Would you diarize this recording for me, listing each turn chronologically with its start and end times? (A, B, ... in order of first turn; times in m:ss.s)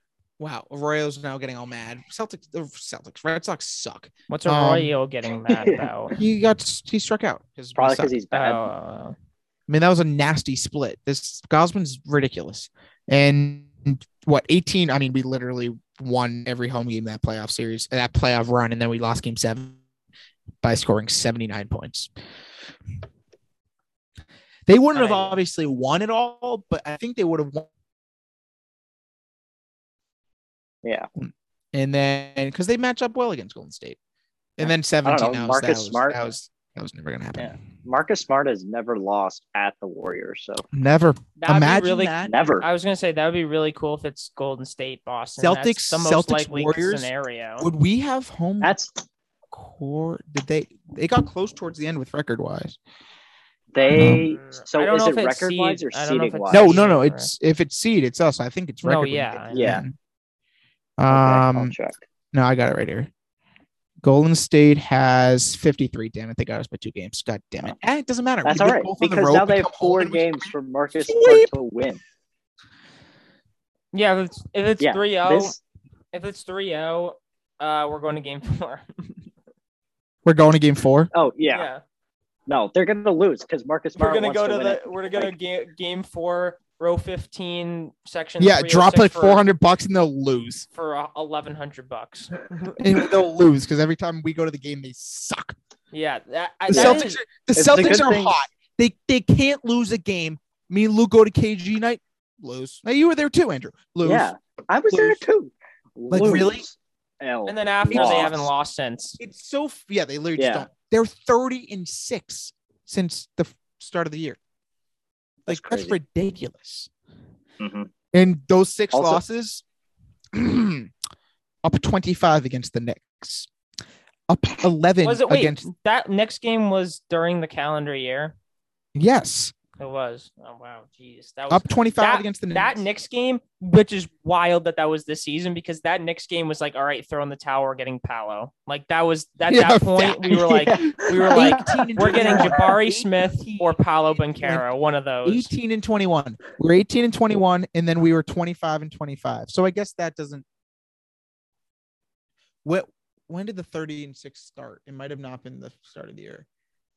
0:00.4-0:05.0 A
0:04.3-0:06.2 B
0:05.5-0:05.9 C
0:06.2-0:08.2 A
0:07.8-0:08.7 C
0:08.3-0:09.2 B
0:09.7-0:19.8 A
0:20.6-0:22.1 A
0:24.7-0:27.7 A
0:24.9-0:25.4 B
0:31.2-0:34.0 A
0:34.6-0:37.5 A
0:34.6-0:36.2 C
0:37.4-0:40.6 C
0:40.7-0:42.4 A
0:41.4-0:47.7 B
0:42.2-0:42.7 C
0:45.4-0:48.8 A
0:48.6-0:49.0 C
0:49.5-0:52.8 A
0:53.7-0:56.8 C
0:53.8-0:57.3 B
0:53.9-0:54.2 A
0:56.5-1:00.0 A
0:58.8-0:59.8 B
0:59.5-0:59.8 C
1:01.0-1:01.8 A
1:01.1-1:02.0 C
1:02.3-1:03.1 A
1:04.0-1:11.5 A
1:08.4-1:12.0 C
1:13.9-1:15.6 B
1:14.8-1:15.6 C
1:16.1-1:19.2 B
1:20.2-1:21.1 A
1:21.1-1:21.7 C
1:21.5-1:21.8 B
1:22.5-1:25.3 C
1:24.0-1:29.4 B
1:28.4-1:30.7 A
1:30.7-1:32.8 B
1:32.8-1:35.6 A
1:35.9-1:37.2 B
1:36.7-1:44.3 A
1:36.7-1:38.3 C
1:44.0-1:48.5 C
1:44.9-1:45.2 A
1:46.1-1:46.6 A
1:47.5-1:49.2 B
1:47.9-1:48.4 A
1:49.2-1:54.4 A
1:50.4-1:50.7 C
1:55.5-1:56.0 C
1:55.5-1:56.9 A
1:57.6-1:57.9 C
1:58.1-1:59.6 A
1:58.9-1:59.2 C
2:00.3-2:00.9 A
2:01.6-2:03.5 A
2:04.3-2:05.7 A
2:05.0-2:08.4 B
2:09.0-2:09.6 A
2:09.8-2:25.5 B
2:11.5-2:12.8 A
2:19.5-2:24.6 A
2:20.4-2:22.7 C
2:25.2-2:30.4 A
2:32.6-2:36.5 A